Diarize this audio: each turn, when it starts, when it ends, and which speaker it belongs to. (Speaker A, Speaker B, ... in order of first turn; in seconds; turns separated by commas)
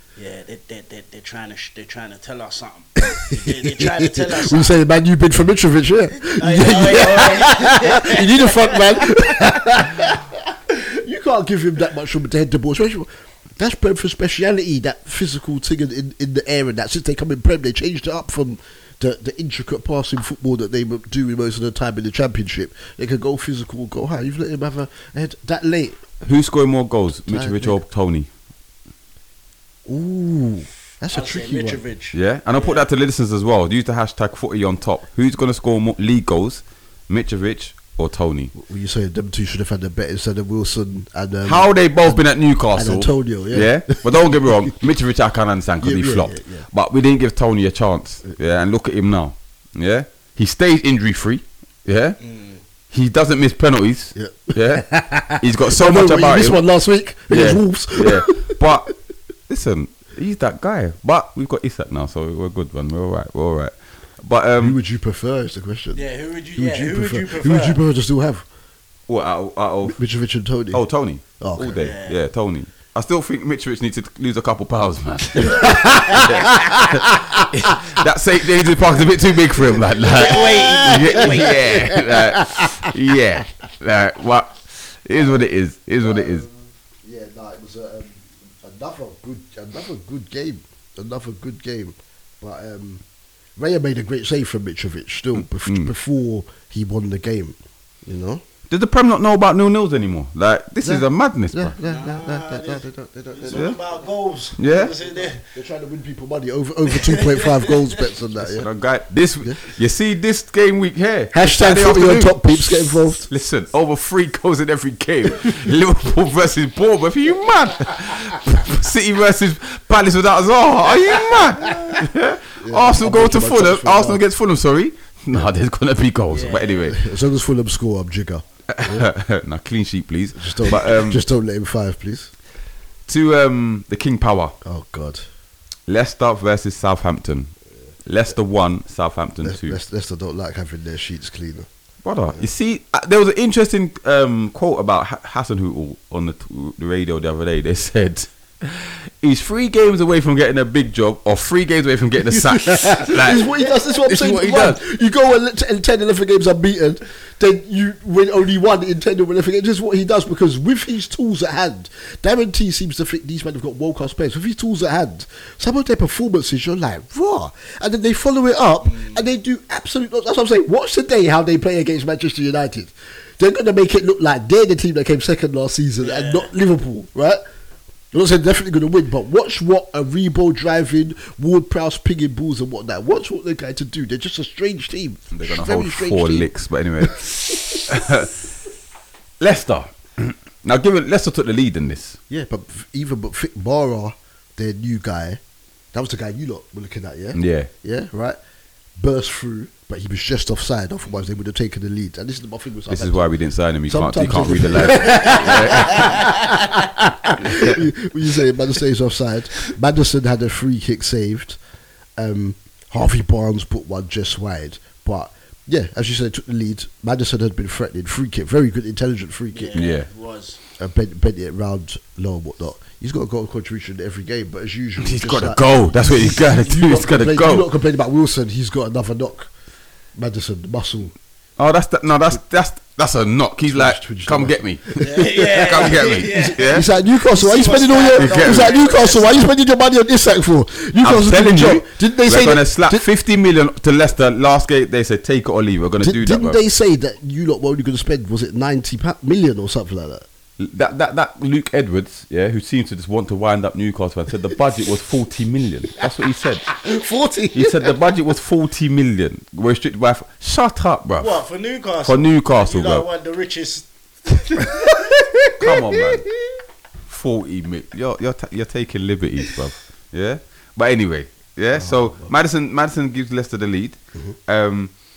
Speaker A: 0.1-4.8, Speaker B: 3.0-26.0, Speaker A: 6.1-9.3, Speaker C: 26.2-28.3, Speaker B: 27.3-27.8, Speaker B: 29.9-31.8, Speaker A: 31.1-32.9, Speaker C: 32.1-38.5, Speaker B: 38.5-44.7, Speaker C: 41.4-52.2, Speaker B: 45.8-46.7, Speaker A: 52.2-52.6, Speaker C: 52.9-56.6, Speaker B: 54.1-58.6, Speaker C: 57.3-58.9, Speaker C: 59.5-64.8, Speaker B: 64.6-66.0, Speaker A: 65.9-67.8, Speaker B: 66.5-68.4, Speaker C: 69.1-70.0, Speaker B: 69.8-70.8, Speaker C: 70.7-86.5, Speaker B: 71.4-71.8, Speaker A: 71.8-72.2, Speaker B: 75.5-77.8, Speaker A: 75.5-76.3, Speaker B: 79.6-82.9, Speaker A: 80.0-81.6, Speaker B: 86.0-93.0, Speaker B: 93.6-98.4, Speaker C: 95.3-95.9, Speaker C: 98.7-101.7, Speaker B: 100.8-103.8, Speaker A: 101.8-105.4, Speaker C: 104.6-104.9, Speaker B: 105.0-108.7, Speaker A: 107.1-107.9, Speaker C: 108.4-127.0, Speaker B: 111.3-113.3, Speaker A: 121.6-122.0, Speaker B: 122.6-124.2, Speaker A: 126.3-126.9, Speaker B: 126.9-129.1, Speaker C: 128.7-131.2, Speaker B: 130.3-132.3, Speaker C: 133.1-134.5, Speaker B: 134.6-135.2, Speaker C: 135.9-137.5, Speaker C: 138.0-139.8, Speaker B: 139.4-141.7, Speaker C: 142.0-153.5, Speaker B: 152.3-177.4, Speaker C: 154.1-154.8, Speaker A: 168.8-169.2, Speaker A: 176.0-176.5, Speaker B: 178.1-186.5, Speaker C: 185.3-188.3, Speaker C: 189.4-192.2, Speaker B: 192.3-195.4, Speaker B: 195.9-198.4, Speaker C: 197.3-197.7, Speaker B: 199.0-203.3, Speaker C: 202.9-206.2, Speaker B: 203.9-211.6, Speaker A: 205.1-206.1, Speaker C: 207.4-207.8, Speaker B: 212.2-219.7, Speaker A: 219.5-220.6, Speaker C: 219.7-220.1, Speaker B: 220.8-229.5, Speaker C: 225.0-227.7, Speaker B: 230.1-231.1, Speaker C: 231.6-236.8, Speaker B: 233.7-243.1, Speaker A: 235.0-239.5, Speaker C: 238.2-238.8, Speaker C: 241.0-246.6, Speaker B: 246.0-250.2, Speaker C: 250.6-256.7, Speaker B: 256.7-257.9, Speaker C: 257.5-261.4, Speaker A: 261.2-265.0, Speaker C: 262.0-263.1, Speaker B: 265.0-265.6, Speaker C: 265.6-266.3, Speaker C: 267.1-274.9, Speaker B: 271.7-272.3